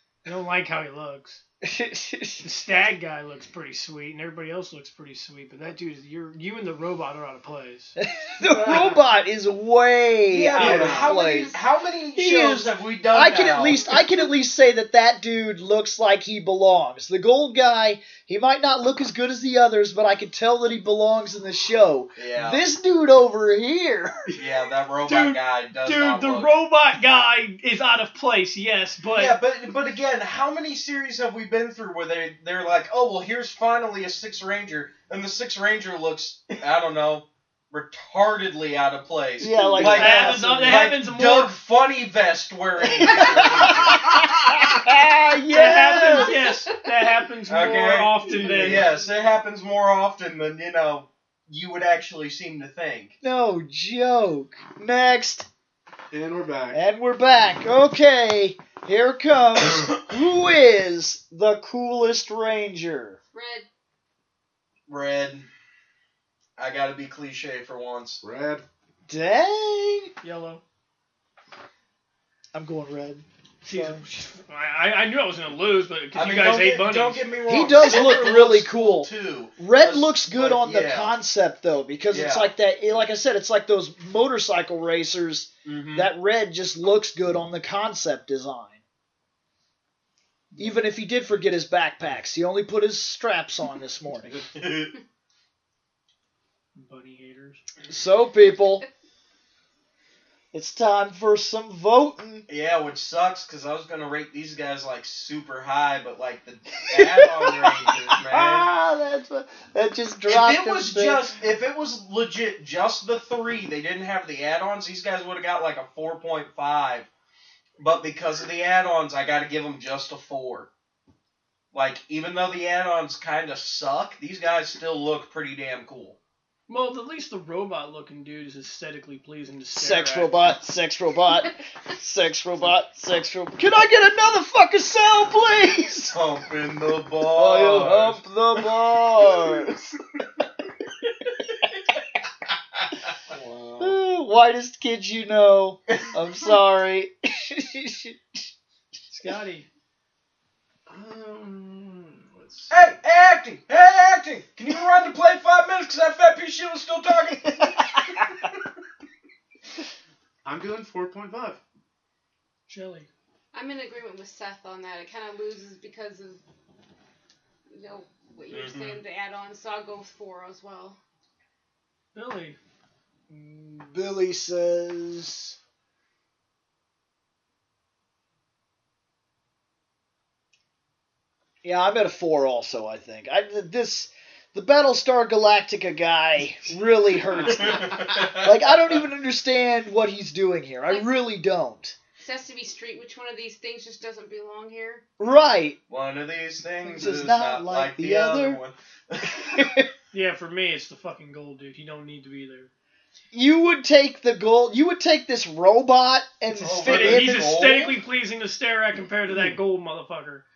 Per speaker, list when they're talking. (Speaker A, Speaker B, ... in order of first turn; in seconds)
Speaker A: 0.2-1.4, 2.4-8.0, 25.1-29.4, 39.8-41.5, 45.5-48.9, 70.2-70.6, 73.6-77.3, 96.8-97.6, 126.7-130.3, 149.1-149.7, 162.7-163.1, 172.2-172.6, 200.1-202.7, 206.7-210.4
Speaker B: 1.6-2.5, 8.0-11.6, 12.2-24.3, 39.4-40.9, 42.8-46.4, 48.5-48.8, 53.2-55.5, 56.7-63.2, 69.1-70.1, 72.5-74.0, 77.5-88.8, 90.6-94.5, 97.9-98.8, 100.5-102.5, 106.9-111.2, 129.8-136.2, 137.3-139.9, 143.8-148.5, 173.3-175.6, 181.6-191.9, 195.2-195.8, 196.9-198.6, 199.4-199.9, 203.3-207.4
Speaker C: 10.3-13.9, 22.2-22.6, 24.4-26.5, 29.1-44.8, 47.5-53.1, 64.9-65.5, 66.6-68.2, 76.2-81.1, 82.1-82.5, 85.7-86.1, 94.5-94.9, 102.5-108.7, 110.3-117.1, 117.8-120.7, 121.7-126.2, 136.1-138.7, 152.7-158.3, 168.5-169.0, 187.6-188.8, 195.9-199.7, 206.5-208.0
Speaker D: 10.6-11.1, 56.1-56.8, 68.2-68.7, 143.3-144.0, 150.9-152.8, 160.4-161.6, 187.4-187.8, 196.9-197.2
Speaker E: 11.2-11.5, 46.1-46.9, 63.3-63.7, 163.5-166.4, 167.7-171.0, 190.9-191.1, 192.2-195.0